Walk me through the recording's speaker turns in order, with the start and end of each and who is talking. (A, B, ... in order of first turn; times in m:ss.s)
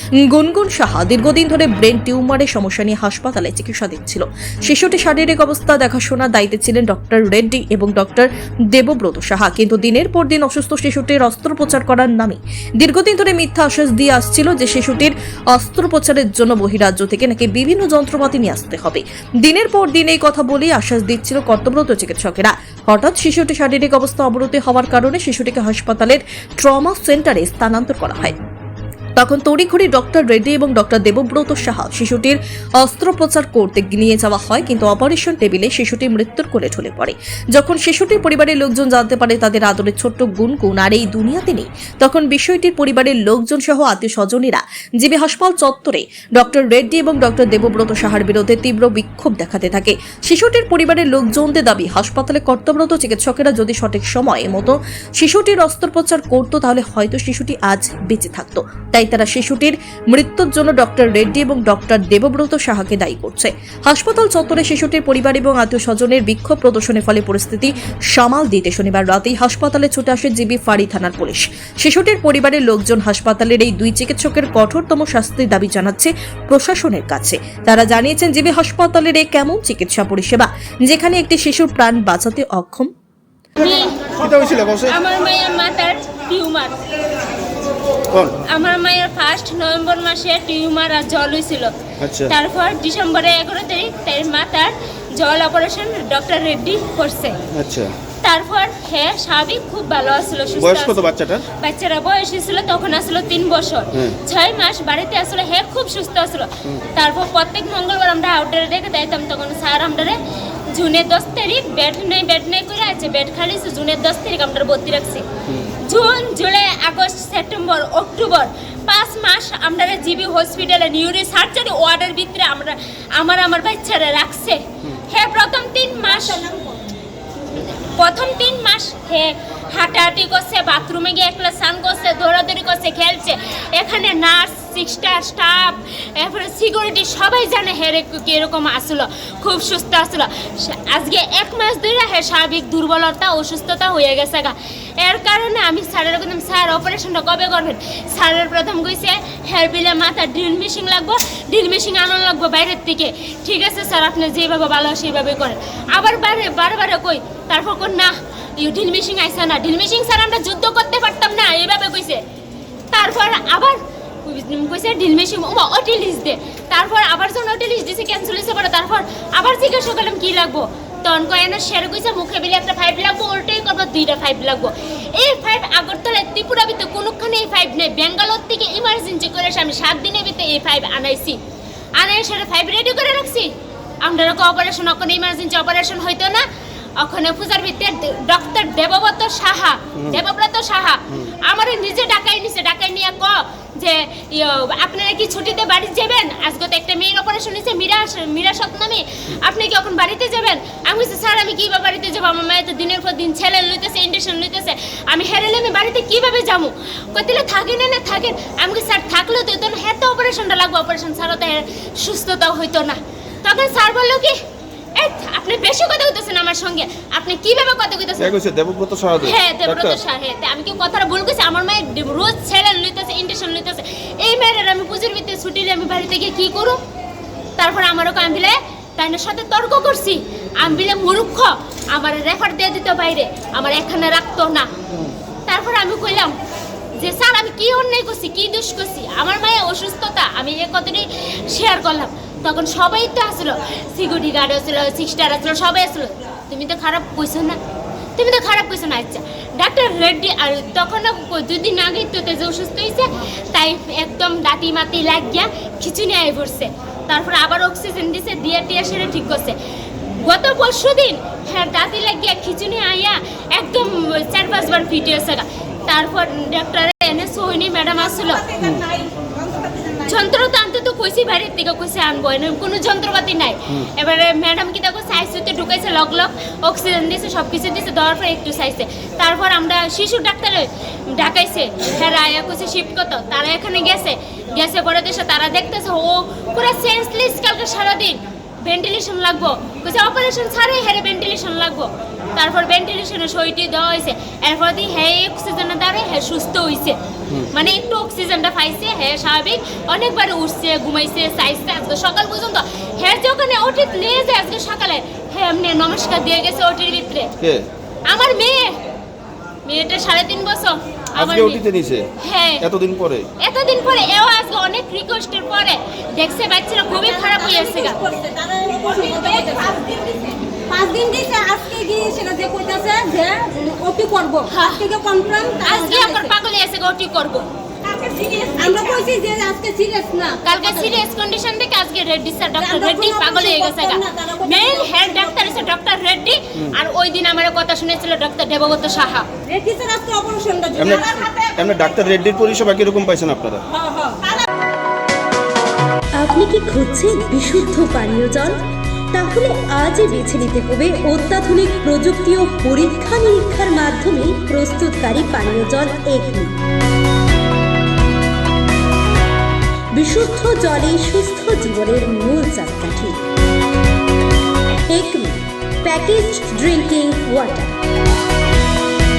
0:00.3-0:28.4 A
0:29.2-1:22.9 A
1:23.6-1:26.8 B
1:23.6-1:25.0 C
1:28.4-1:37.4 B
1:32.0-1:32.3 C
1:37.5-1:38.0 C
1:38.2-2:06.5 B
1:40.6-1:41.4 C
2:06.3-2:06.8 D
2:07.5-2:42.2 B
2:42.9-3:01.4 B
3:02.0-3:06.5 B
3:07.0-3:34.4 B
3:35.0-3:38.4 B
3:38.2-3:40.0 C
3:39.2-3:46.8 B
3:47.6-3:54.7 B
3:55.5-3:56.4 B
3:57.0-4:07.6 B
4:08.2-4:19.6 B
4:20.1-4:28.6 B
4:28.5-4:30.0 D
4:30.0-4:57.0 B
4:57.5-5:07.3 B
5:08.1-5:08.8 B
5:09.6-5:11.6 B
5:11.2-5:12.1 C
5:12.2-5:12.7 B
5:12.6-5:13.3 C
5:13.4-5:18.0 B
5:17.6-5:26.3 D
5:24.5-5:24.9 B
5:25.6-5:27.5 B
5:27.9-5:30.4 D
5:30.4-5:39.3 B
5:32.7-5:34.9 D
5:39.5-5:41.5 D
5:40.8-5:43.6 C
5:43.8-5:44.3 D
5:46.2-5:48.6 E
5:49.1-5:56.5 E
6:00.0-6:03.2 E
6:04.9-6:07.7 E